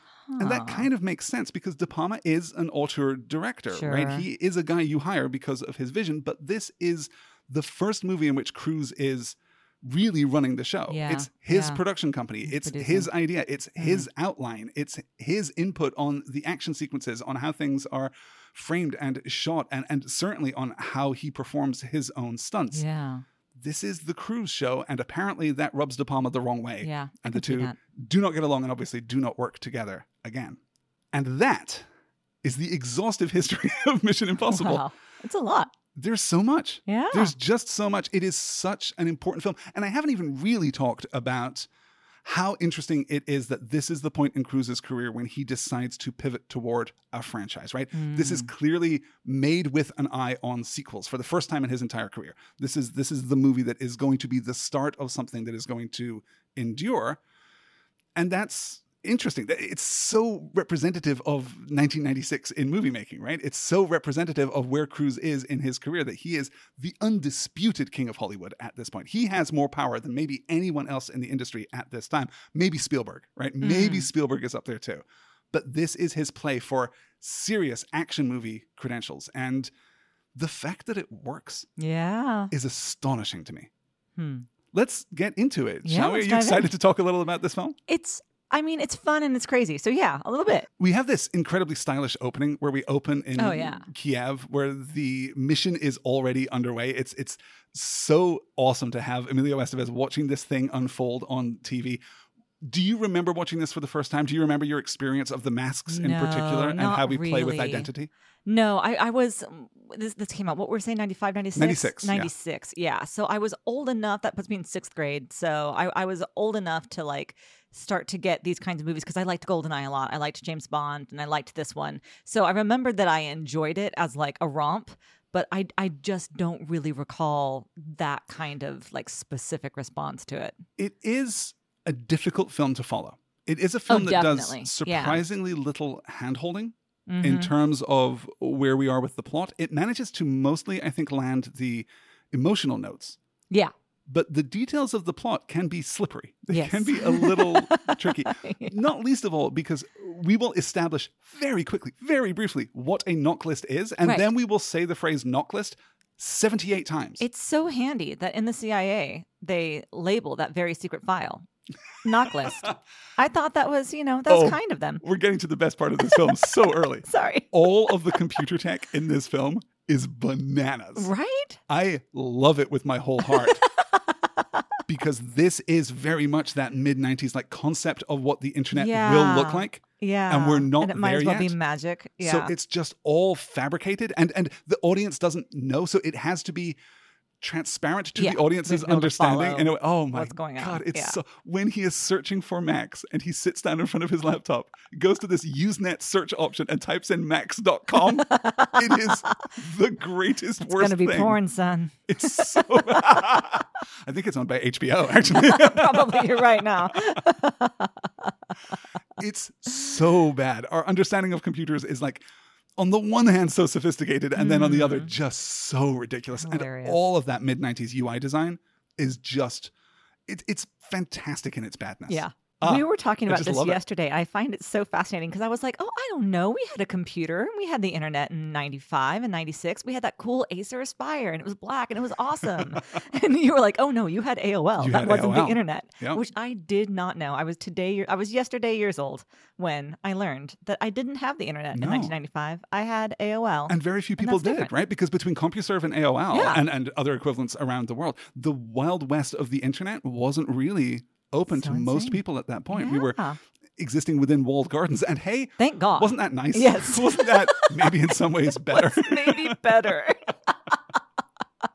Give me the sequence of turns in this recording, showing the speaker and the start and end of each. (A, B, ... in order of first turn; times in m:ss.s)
0:00.3-0:00.9 A
0:00.4-0:22.8 B
0:03.7-0:04.2 A
0:10.9-0:11.8 A
0:12.4-0:13.1 A
0:13.8-0:14.1 A
0:22.7-0:23.2 A
0:23.5-0:30.6 B
0:26.8-0:27.8 A
0:31.1-0:31.9 B
0:32.4-0:34.8 B
0:34.4-0:35.7 A
0:35.9-0:41.7 B
0:36.9-0:37.4 A
0:42.2-0:57.2 B
0:47.9-0:48.5 A
0:58.2-1:19.7 B
1:13.6-1:14.1 A
1:20.4-1:21.7 B
1:21.8-1:22.5 A
1:22.5-1:23.7 B
1:24.2-1:24.5 A
1:24.7-1:27.8 B
1:25.8-1:26.7 A
1:27.9-1:30.7 A
1:30.8-1:42.0 B
1:33.4-1:33.9 A
1:42.6-1:48.1 B
1:45.9-1:47.9 A
1:48.5-2:10.6 A
1:51.6-1:52.3 B
2:10.8-2:23.2 B
2:13.9-2:15.2 A
2:17.1-2:17.5 A
2:24.1-2:37.2 B
2:26.5-2:28.8 A
2:37.2-2:41.5 A
2:42.0-2:45.0 A
2:42.3-2:42.7 B
2:44.3-2:51.1 B
2:46.0-2:48.3 A
2:51.0-2:51.6 A
2:51.7-2:53.6 B
2:53.2-2:54.6 A
2:54.9-3:01.6 B
2:58.7-3:02.5 A
3:02.2-3:06.8 B
3:07.4-3:21.4 B
3:08.2-3:11.2 A
3:18.0-3:19.4 A
3:20.6-3:23.2 A
3:22.1-3:27.2 B
3:25.3-3:28.8 A
3:29.2-3:32.2 B
3:32.8-3:39.7 B
3:34.4-3:35.1 A
3:36.4-3:37.0 A
3:40.3-3:43.8 B
3:42.1-4:04.7 A
3:52.5-3:52.8 B
3:54.8-3:56.2 B
4:01.7-4:02.2 B
4:03.7-4:13.2 B
4:06.3-4:06.6 A
4:11.5-4:12.2 A
4:12.7-4:13.4 A
4:13.8-4:19.9 B
4:15.6-4:20.8 A